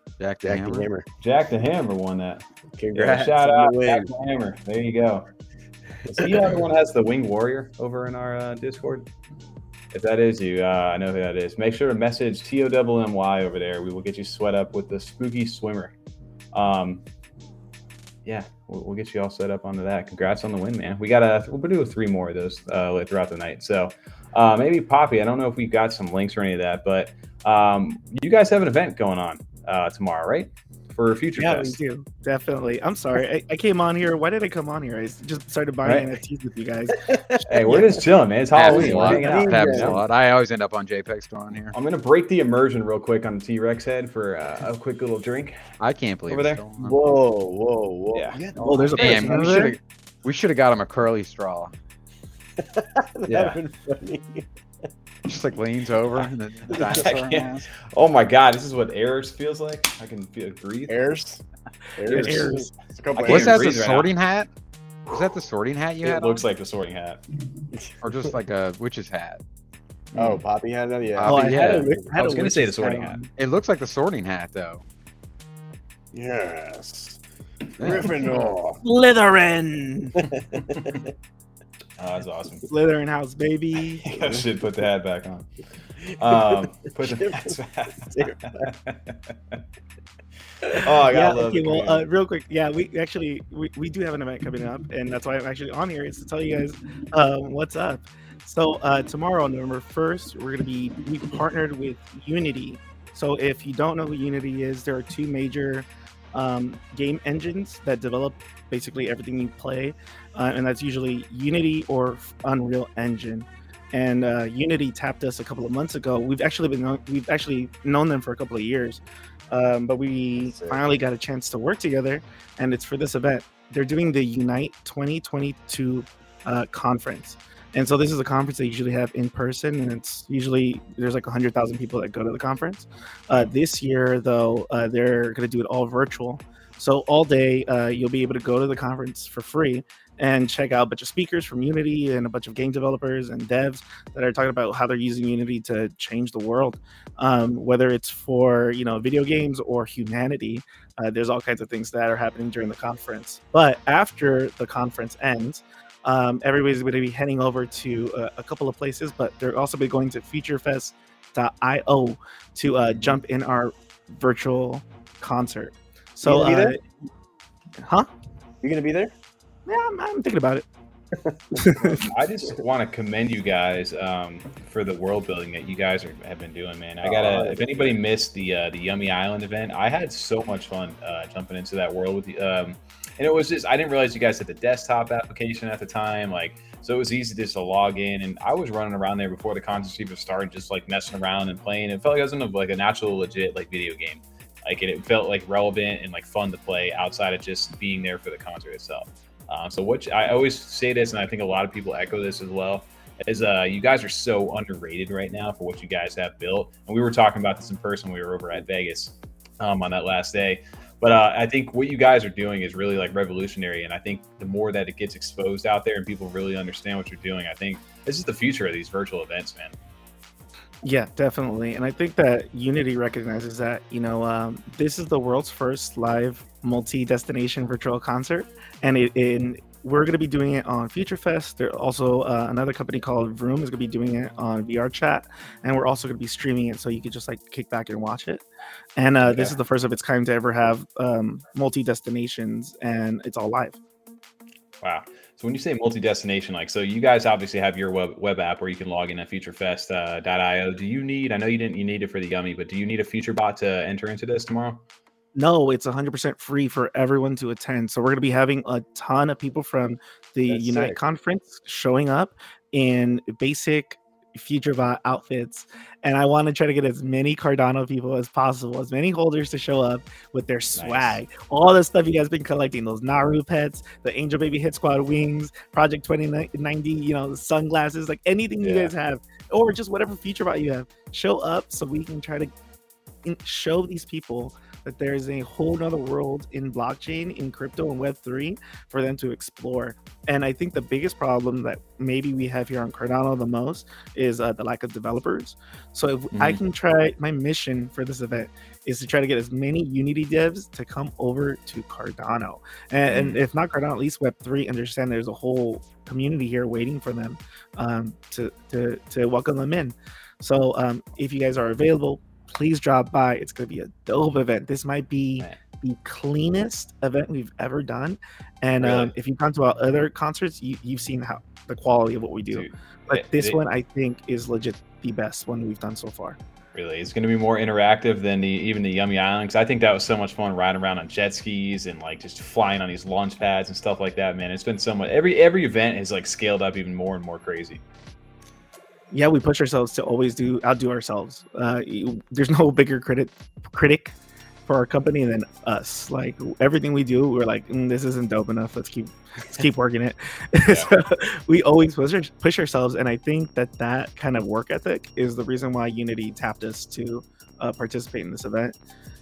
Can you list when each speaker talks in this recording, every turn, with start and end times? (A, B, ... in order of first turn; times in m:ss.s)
0:00.2-0:00.9 A
0:00.4-0:01.1 B
0:01.2-0:02.4 C
0:02.8-0:04.1 B
0:03.0-0:05.3 C
0:06.0-0:06.6 B
0:06.2-0:09.1 C
0:09.9-0:15.9 C
0:16.5-0:17.0 C
0:18.2-0:31.8 C
0:31.4-0:38.0 D
0:35.8-0:36.1 C
0:37.5-0:40.0 C
0:38.6-0:41.8 A
0:38.6-0:40.0 B
0:41.7-0:45.6 C
0:45.8-0:47.0 A
0:46.3-0:46.6 C
0:46.8-0:49.7 B
0:48.1-0:48.4 C
0:48.6-0:49.8 D
0:49.0-0:51.7 A
0:52.7-0:54.5 B
0:53.3-0:53.6 C
0:55.3-0:57.7 A
0:56.8-1:01.1 C
1:00.9-1:01.4 B
1:02.0-1:03.8 B
1:02.0-1:02.7 D
1:02.1-1:02.5 C
1:03.2-1:04.1 C
1:03.3-1:04.5 A
1:05.1-1:06.4 A
1:06.0-1:07.2 C
1:07.7-1:08.3 B
1:08.0-1:09.4 A
1:10.1-1:10.4 C
1:10.2-1:12.1 B
1:11.2-1:11.9 A
1:11.2-1:13.3 D
1:12.1-1:13.2 C
1:13.4-1:14.8 A
1:16.1-1:17.2 B
1:17.8-1:18.1 A
1:17.8-1:18.8 B
1:18.8-1:20.2 D
1:20.3-1:21.0 B
1:22.0-1:22.7 C
1:22.6-1:24.1 D
1:24.0-1:25.5 C
1:26.1-1:29.6 C
1:26.3-1:28.6 B
1:30.7-1:32.0 C
1:31.1-2:46.8 D
2:00.4-2:01.0 B
2:46.2-2:46.8 B
2:47.8-2:48.1 D
2:48.6-2:49.1 B
2:49.7-2:50.6 D
2:51.2-2:51.9 B
2:51.6-2:52.0 D
2:51.9-3:39.8 C
2:57.0-2:58.0 B
3:40.8-3:58.4 D
3:59.0-4:03.8 D
3:59.2-3:59.6 C
4:04.8-4:14.8 C
4:15.4-4:42.5 D
4:20.5-4:21.0 B
4:30.8-4:31.2 C
4:38.6-4:38.9 C
4:43.2-5:26.4 D
4:56.3-4:56.6 C
5:03.1-5:03.4 C
5:18.8-5:19.1 C
5:22.5-5:23.6 C
5:26.7-5:37.8 C
5:39.1-5:44.1 D
5:44.7-5:58.8 D